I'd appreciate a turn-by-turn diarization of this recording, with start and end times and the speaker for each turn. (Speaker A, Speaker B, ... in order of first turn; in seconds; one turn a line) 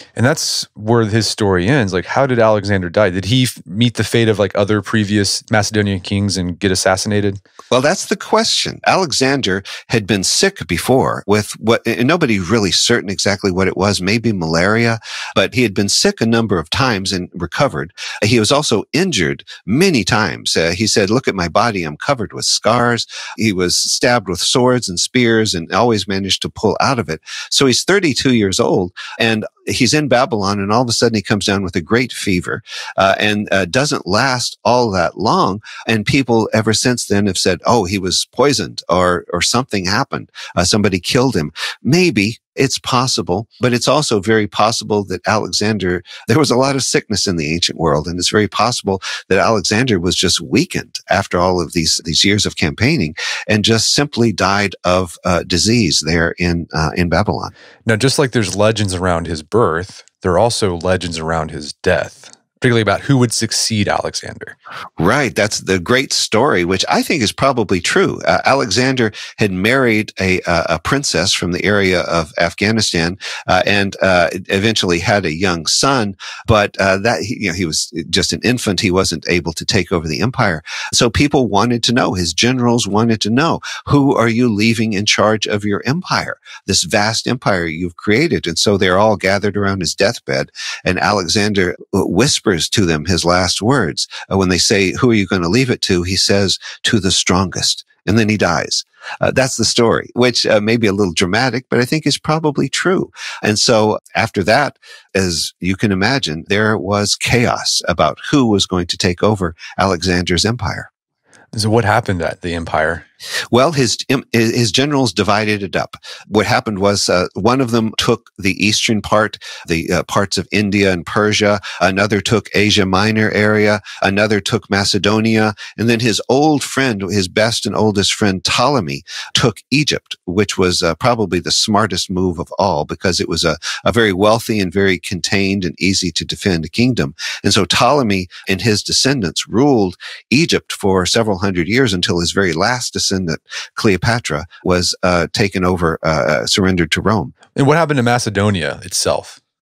Speaker A: 0.2-7.4
Speaker B: 7.7-57.5
Speaker A: 57.9-64.5
Speaker B: 65.0-110.9
Speaker A: 111.5-113.0
Speaker B: 113.5-147.3
Speaker A: 147.6-149.4